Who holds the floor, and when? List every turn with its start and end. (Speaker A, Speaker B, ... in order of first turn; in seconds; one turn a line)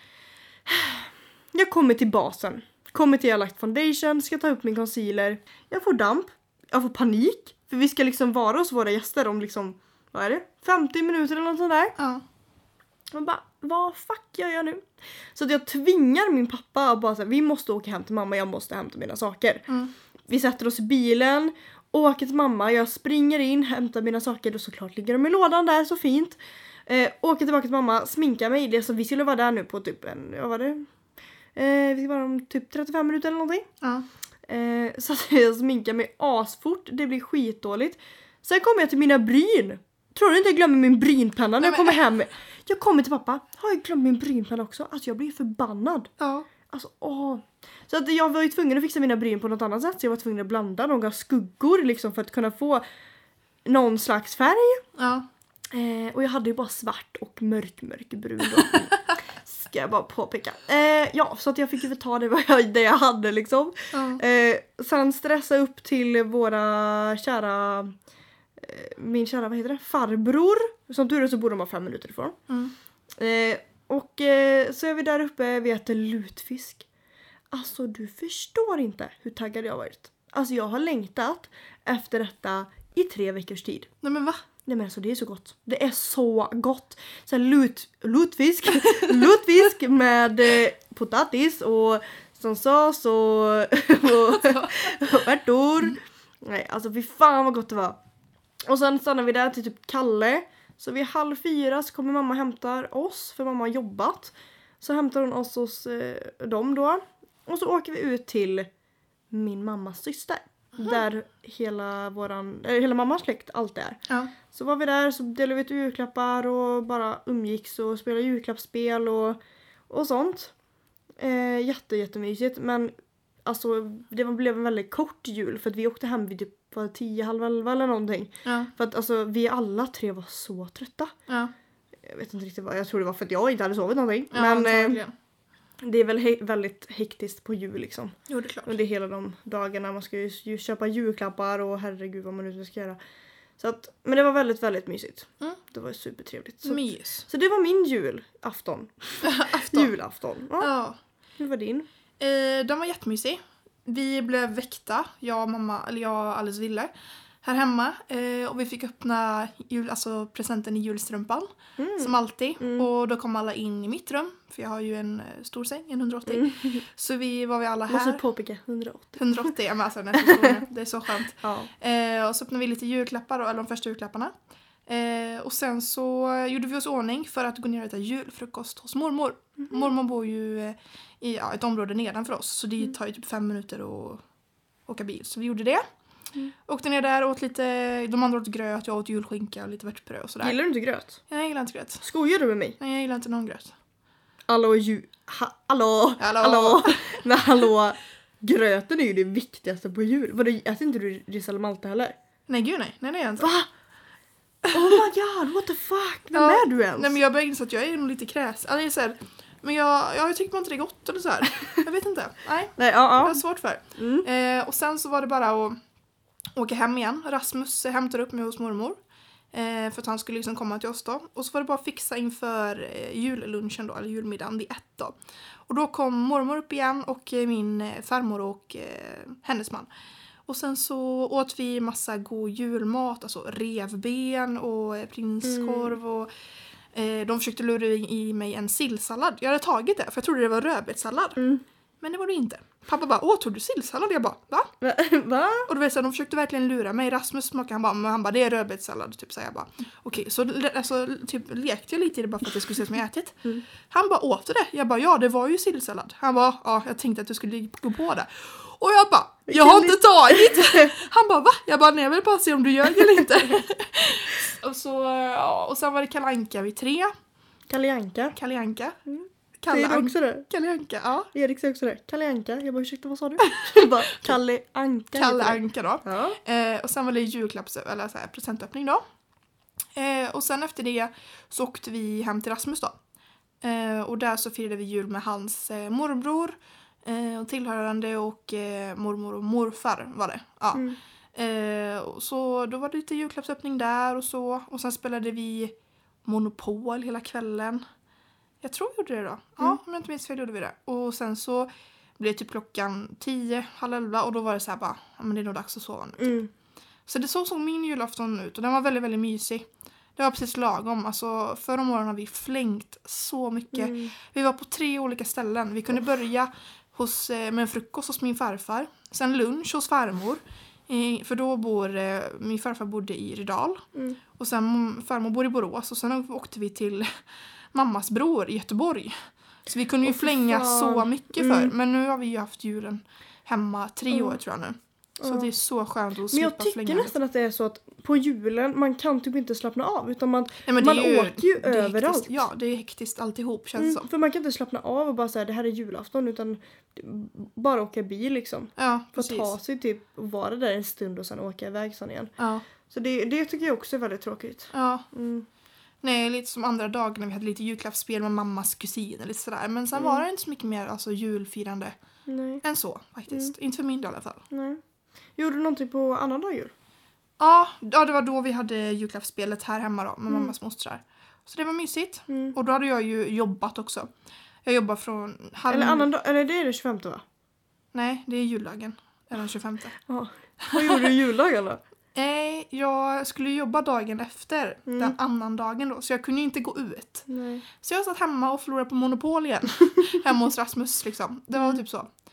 Speaker A: 0.7-11.9
Speaker B: 12.0-12.2
Speaker A: 13.1-19.6
Speaker B: 19.7-19.9
Speaker A: 20.3-30.9
Speaker A: 31.5-33.7
Speaker A: 34.5-46.1
Speaker B: 41.6-42.0
Speaker B: 46.2-46.5
Speaker A: 46.7-52.8
Speaker A: 53.6-54.8
Speaker B: 55.0-55.2
Speaker A: 55.7-67.9
Speaker B: 63.9-64.2
Speaker A: 68.6-72.4
Speaker B: 72.5-72.7
Speaker A: 73.2-76.8
Speaker A: 77.5-83.9
Speaker B: 84.0-84.4
Speaker A: 84.6-98.0
Speaker B: 94.3-94.8
Speaker A: 98.6-108.7
Speaker A: 109.3-120.5
Speaker A: 121.2-122.9
Speaker A: 123.4-131.1
Speaker B: 128.4-128.7
Speaker A: 132.0-135.0
Speaker B: 134.3-135.1
Speaker A: 135.8-143.0
Speaker B: 138.3-138.8
Speaker A: 143.6-150.7
Speaker B: 146.6-147.2
Speaker B: 149.2-149.9
Speaker B: 150.6-151.0
Speaker A: 151.4-151.9
Speaker B: 152.2-156.9
Speaker B: 157.4-168.2
Speaker A: 161.8-162.8
Speaker A: 166.3-166.8
Speaker A: 167.9-169.5
Speaker B: 169.2-174.3
Speaker A: 170.2-170.6
Speaker A: 171.4-171.7
Speaker B: 174.9-184.2
Speaker B: 184.9-185.8
Speaker B: 186.7-190.6
Speaker A: 190.4-191.2
Speaker B: 191.3-192.0
Speaker A: 192.0-192.8
Speaker B: 192.8-193.7
Speaker A: 194.5-202.2
Speaker B: 196.2-197.2
Speaker B: 202.5-203.5
Speaker A: 203.4-203.7
Speaker A: 204.7-207.1
Speaker B: 206.3-215.8
Speaker A: 212.8-213.4
Speaker A: 214.0-214.2
Speaker B: 216.6-219.0
Speaker B: 219.5-225.1
Speaker B: 225.7-229.9
Speaker B: 230.5-236.3
Speaker A: 235.4-236.0
Speaker B: 236.9-241.4
Speaker A: 241.4-241.6
Speaker B: 242.0-244.7
Speaker A: 244.8-245.7
Speaker B: 245.7-267.1
Speaker A: 259.5-260.9
Speaker A: 267.7-268.4
Speaker B: 268.3-269.0
Speaker A: 269.1-270.4
Speaker B: 269.6-271.3
Speaker A: 271.3-276.4
Speaker B: 275.1-279.0
Speaker B: 279.9-283.0
Speaker B: 283.6-295.7
Speaker B: 296.2-297.8
Speaker B: 298.6-306.4
Speaker A: 306.2-306.5
Speaker B: 307.1-327.1
Speaker A: 313.7-314.1
Speaker B: 327.7-329.1
Speaker B: 329.7-337.1
Speaker A: 330.0-331.7
Speaker A: 335.2-335.5
Speaker A: 336.3-342.4
Speaker B: 340.6-344.0
Speaker A: 343.8-352.3
Speaker B: 348.8-349.5
Speaker B: 352.4-352.6
Speaker A: 352.9-355.5
Speaker B: 354.7-355.1
Speaker B: 356.0-361.9
Speaker A: 359.9-360.2
Speaker A: 362.3-362.6
Speaker B: 362.6-364.4
Speaker A: 364.5-364.8
Speaker A: 365.4-366.7
Speaker B: 367.4-374.1
Speaker A: 372.3-372.5
Speaker B: 374.6-376.1
Speaker A: 375.7-377.2
Speaker B: 377.9-380.0
Speaker A: 380.1-381.8
Speaker B: 380.6-381.1
Speaker B: 382.1-387.3
Speaker A: 384.9-385.1
Speaker A: 387.3-387.6
Speaker B: 387.8-392.1